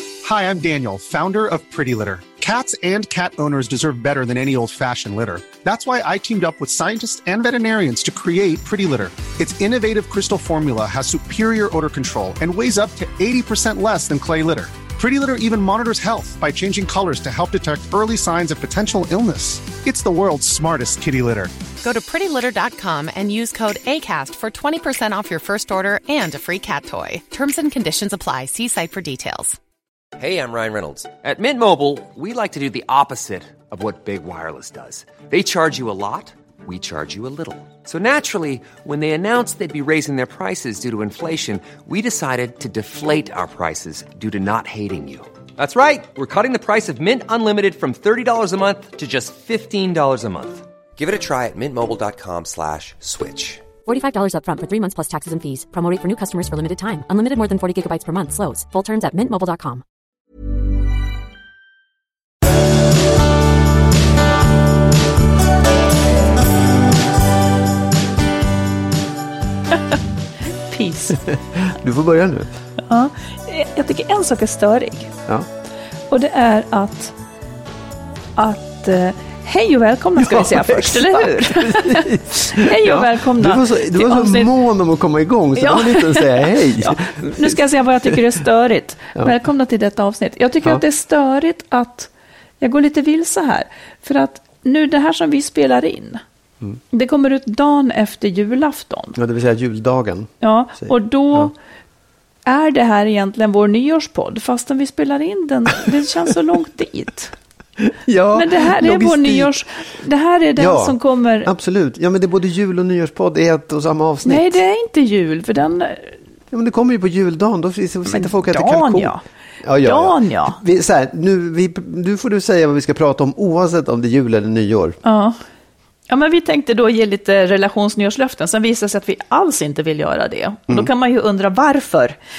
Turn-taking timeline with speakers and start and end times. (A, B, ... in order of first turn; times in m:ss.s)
0:00.2-0:21.5 A
0:21.8-0:29.6 B
0:30.2-0:53.7 C
0:53.8-0:59.8 D
1:10.7-1:11.2 E
1:11.1-1:12.6 F
1:12.8-1:15.1 E
1:16.1-1:17.1 E
1:18.4-1:24.5 E
1:20.2-1:28.2 F
1:25.6-1:32.1 E
1:32.6-1:36.2 E
1:36.9-1:39.1 E
1:39.1-1:41.5 F
1:40.4-1:41.5 E
1:42.4-1:47.3 E
1:47.8-1:49.5 F
1:48.3-1:51.5 E
1:50.6-1:54.6 F
1:54.2-1:56.2 E
1:56.5-2:05.0 F
1:58.1-1:59.2 E
1:59.8-2:00.6 E
2:05.0-2:05.4 E
2:06.1-2:12.2 E